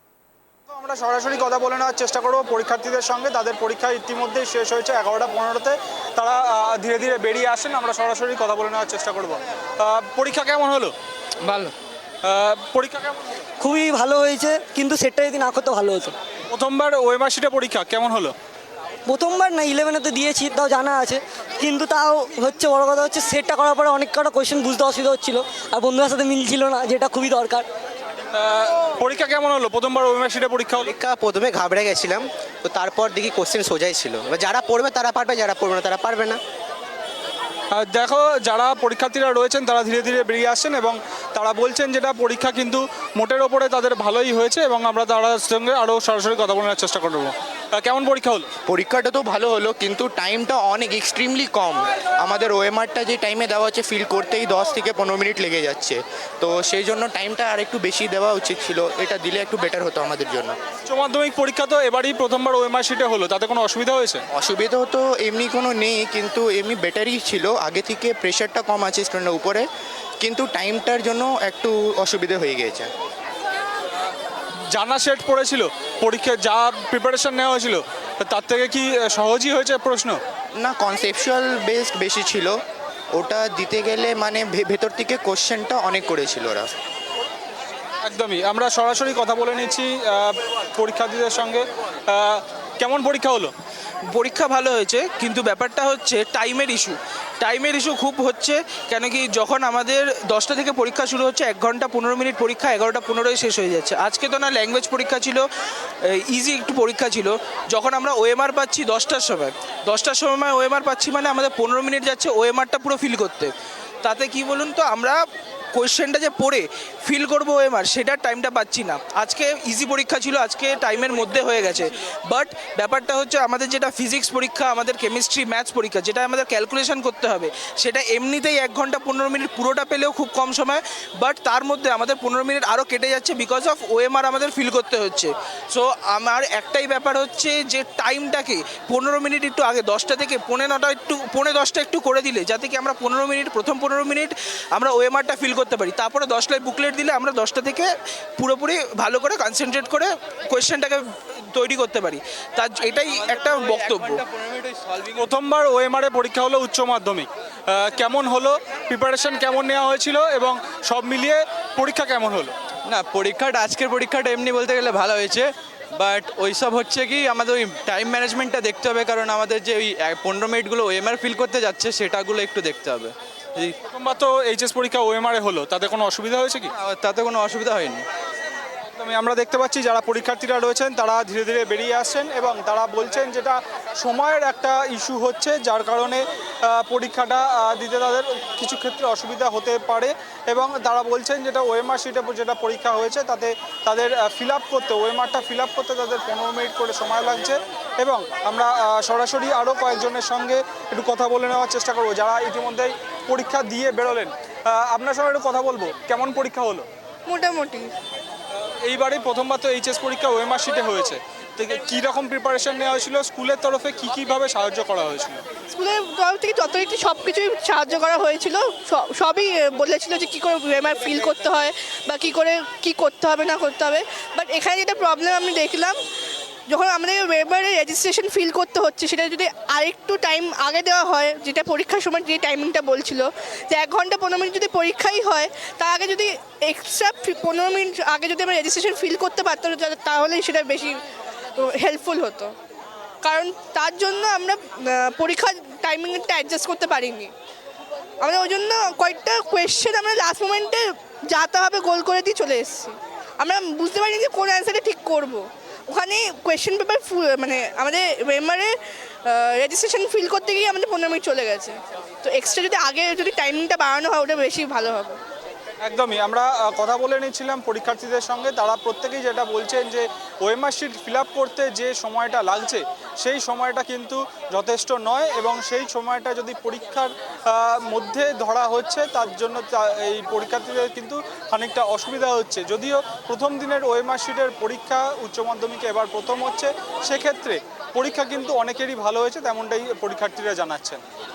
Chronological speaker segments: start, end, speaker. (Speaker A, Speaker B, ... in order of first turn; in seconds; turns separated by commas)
Speaker A: 0.7-10.9, Speaker A: 12.2-13.2, Speaker B: 13.6-16.1, Speaker A: 16.5-18.3, Speaker B: 19.1-27.6, Speaker A: 28.3-30.9, Speaker C: 30.9-36.4, Speaker A: 37.7-48.5, Speaker D: 48.7-60.5, Speaker A: 60.9-64.2, Speaker D: 64.3-69.6, Speaker D: 70.2-72.9, Speaker A: 74.7-80.2, Speaker D: 80.6-82.5, Speaker D: 83.1-86.7, Speaker A: 88.0-93.5, Speaker E: 94.1-105.5, Speaker E: 106.1-113.5, Speaker E: 114.0-115.2, Speaker E: 115.7-147.9, Speaker E: 148.4-151.0, Speaker E: 151.5-154.2, Speaker F: 153.1-155.3, Speaker A: 155.2-162.5, Speaker F: 162.9-173.7, Speaker A: 173.9-176.7, Speaker F: 176.7-178.0, Speaker A: 178.9-206.8, Speaker G: 207.2-207.9, Speaker A: 208.5-215.4, Speaker G: 215.7-226.0, Speaker G: 226.7-241.0, Speaker G: 241.6-242.5, Speaker G: 243.2-247.3, Speaker G: 248.2-265.2, Speaker A: 265.8-291.0